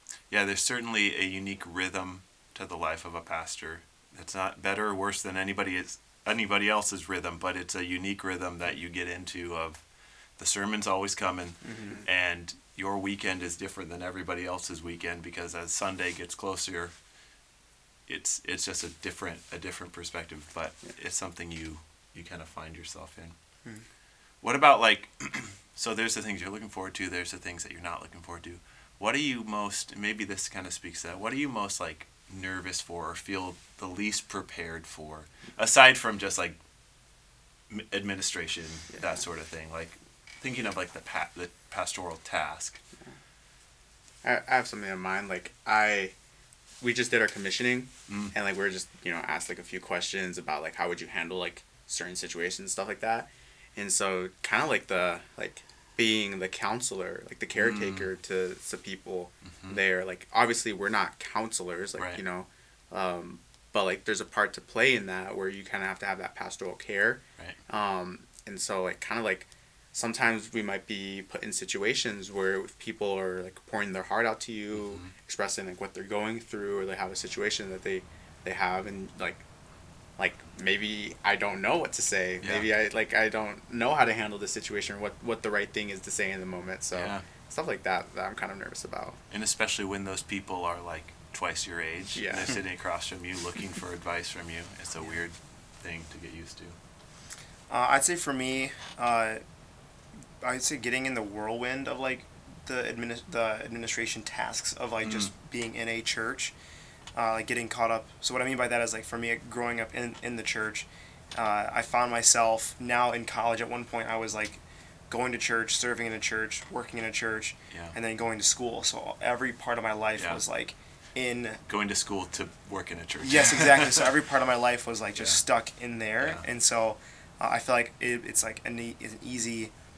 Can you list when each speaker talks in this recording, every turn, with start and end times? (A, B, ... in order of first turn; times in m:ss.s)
0:00.3-0:09.8 A
0:10.4-0:16.9 A
0:11.6-0:12.0 B
0:18.1-0:23.3 A
0:24.4-0:36.6 A
0:37.7-0:42.8 A
0:44.2-0:46.1 C
0:46.8-1:19.4 C
0:48.1-0:48.3 A
0:57.6-0:58.1 A
0:59.5-0:59.8 A
1:14.7-1:15.1 A
1:20.2-1:29.2 C
1:22.4-1:22.7 A
1:26.9-1:27.2 A
1:29.3-1:36.8 A
1:32.1-1:32.5 C
1:37.7-1:39.4 B
1:40.4-1:46.5 B
1:45.0-1:45.3 A
1:47.1-2:01.6 B
1:57.7-1:58.0 A
2:00.2-2:00.4 A
2:01.7-2:04.1 A
2:03.2-2:09.7 B
2:05.2-2:05.4 A